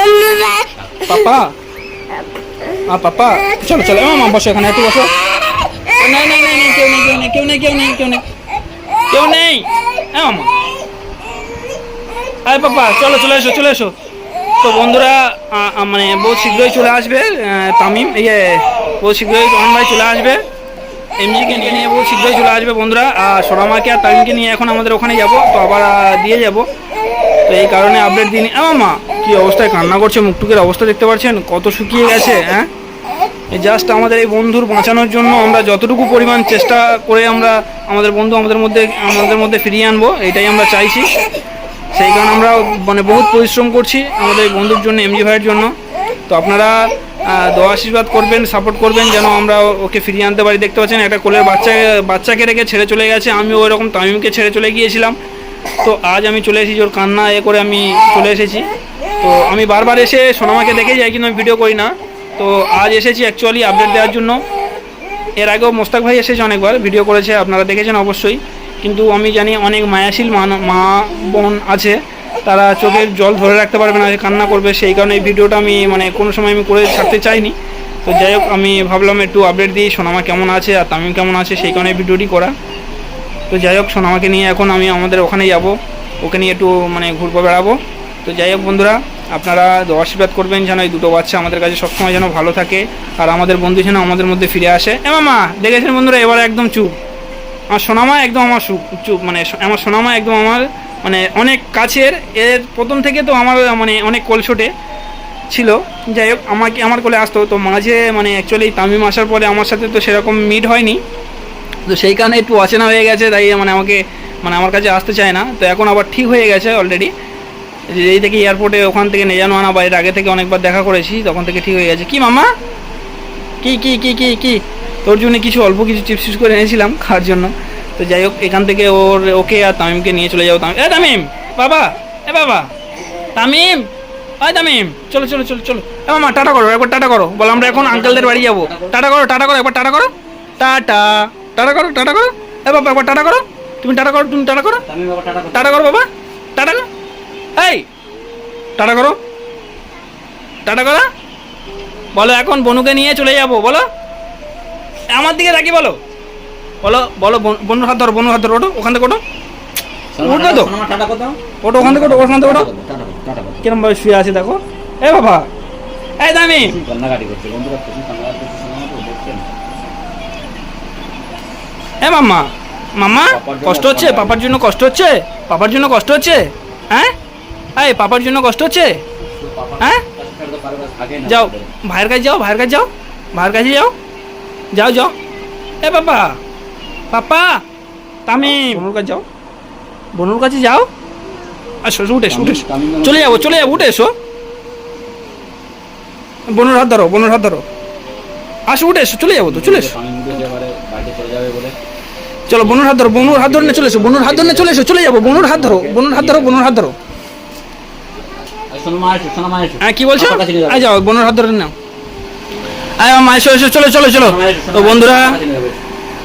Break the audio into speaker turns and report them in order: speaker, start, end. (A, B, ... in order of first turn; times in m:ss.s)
0:00.8-0:01.0 A
0:01.0-0:01.5 B
0:02.9-0:05.1 B
0:06.0-0:08.2 B
0:09.1-0:10.5 B
0:12.4-0:13.9 B
0:14.6-0:20.4 B
0:21.2-0:26.6 B
0:21.4-0:21.8 A
0:27.5-0:32.7 B
0:33.5-0:41.1 B
0:41.9-0:45.7 B
0:46.3-0:55.2 B
0:55.8-0:58.7 B
0:59.2-1:04.4 B
1:05.4-1:17.5 B
1:18.0-1:22.5 B
1:23.5-1:36.9 B
1:37.7-1:44.7 B
1:45.5-1:51.0 B
1:51.9-1:57.1 B
1:57.9-2:02.5 B
2:03.6-2:12.7 B
2:13.4-2:13.8 B
2:14.4-2:24.8 B
2:17.5-2:19.0 A
2:24.8-2:25.9 A
2:25.5-2:26.8 B
2:27.6-2:27.8 B
2:28.8-2:29.2 B
2:30.6-2:31.0 B
2:32.2-2:33.8 B
2:35.1-2:36.0 B
2:36.8-2:39.2 B
2:40.1-2:43.6 A
2:40.2-2:40.7 B
2:41.6-2:42.7 B
2:43.6-2:45.4 B
2:46.2-2:46.8 B
2:46.6-2:49.4 A
2:52.0-2:57.1 B
2:53.3-2:54.4 A
2:57.8-2:59.0 B
2:59.2-3:01.7 A
3:01.2-3:03.9 B
3:04.7-3:05.1 B
3:05.8-3:06.4 B
3:07.1-3:07.6 B
3:08.3-3:09.2 B
3:08.3-3:08.8 A
3:10.2-3:10.9 B
3:11.8-3:14.1 B
3:12.3-3:13.9 A
3:16.5-3:17.6 B
3:18.7-3:19.9 B
3:19.3-3:21.8 A
3:22.5-3:26.9 B
3:22.5-3:26.7 A
3:28.7-3:30.9 A
3:29.8-3:31.7 B
3:33.0-3:35.4 B
3:34.1-3:35.8 A